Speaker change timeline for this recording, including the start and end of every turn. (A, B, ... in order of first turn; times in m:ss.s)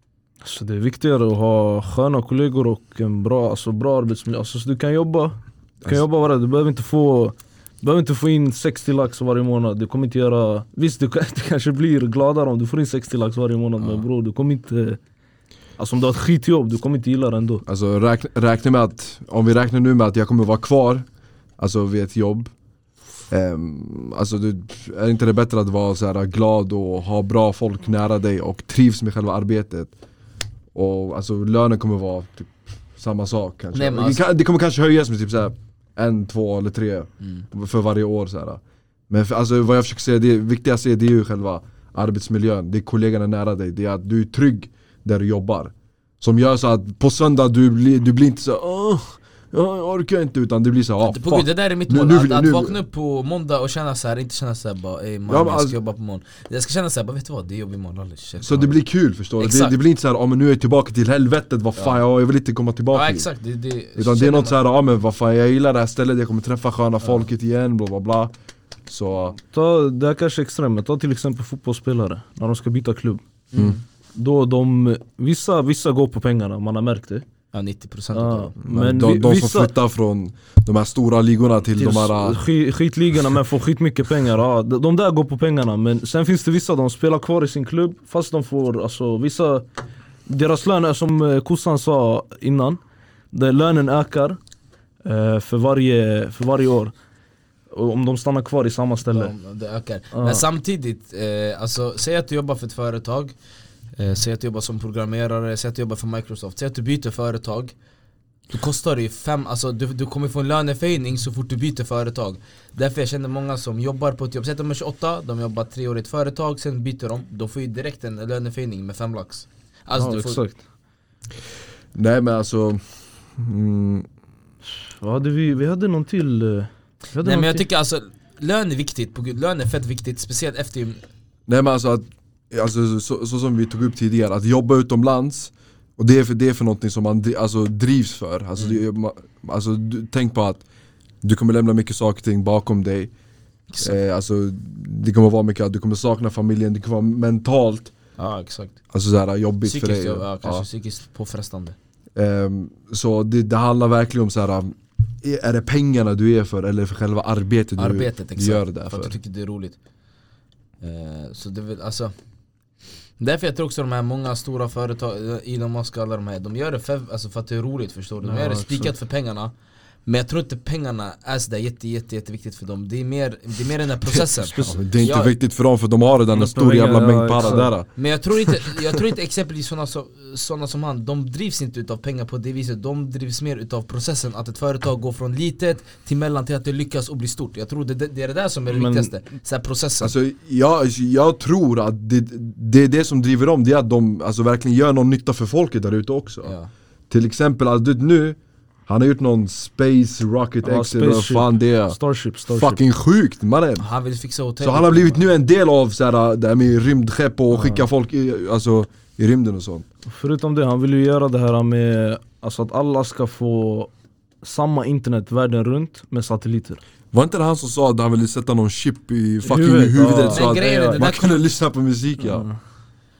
0:00.4-0:15.0 A
0:15.8-0:17.6 A
0:17.6-0:21.0 B
0:21.6-0:22.5 B
0:23.3-0:29.9 B
0:30.7-0:52.8 B
0:33.7-0:34.2 C
0:51.0-0:58.8 C
0:55.3-0:55.8 B
0:58.4-1:03.3 B
0:59.4-0:59.8 C
1:02.9-1:04.6 C
1:04.0-1:08.3 B
1:08.9-1:09.4 B
1:09.5-1:13.2 A
1:13.5-1:13.8 C
1:14.1-1:17.2 A
1:17.5-1:18.5 C
1:18.1-1:19.7 A
1:18.6-1:22.4 B
1:21.8-1:29.6 A
1:30.3-1:32.8 A
1:33.3-1:34.4 A
1:35.0-1:36.9 A
1:37.7-1:39.3 A
1:39.0-1:43.3 C
1:40.1-1:40.4 A
1:44.0-1:47.7 C
1:48.5-2:00.4 C
1:59.9-2:00.6 A
2:01.9-2:02.8 B
2:03.4-2:04.1 B
2:05.0-2:07.6 A
2:07.2-2:11.0 C
2:11.5-2:20.6 B
2:21.2-2:23.1 B
2:23.8-2:27.9 B
2:28.2-2:28.8 C
2:28.9-2:30.6 B
2:29.6-2:31.8 C
2:32.1-2:39.2 B
2:37.8-2:39.8 C
2:40.8-2:42.1 C
2:43.2-2:49.5 C
2:48.2-2:48.9 A
2:50.0-2:55.3 C
2:54.1-2:55.1 A
2:54.6-2:57.9 B
2:56.3-2:57.7 A
2:58.0-3:10.1 C
3:08.7-3:09.1 A
3:10.0-3:16.5 B
3:16.4-3:16.7 C
3:17.1-3:22.0 B
3:20.6-3:22.8 A
3:22.5-3:23.8 B
3:23.8-3:25.3 C
3:24.6-3:29.8 B
3:27.5-3:27.8 A
3:30.1-3:33.9 A
3:34.4-3:36.8 A
3:37.1-3:42.5 B
3:39.4-3:41.1 A
3:40.3-3:41.4 C
3:42.2-3:42.5 A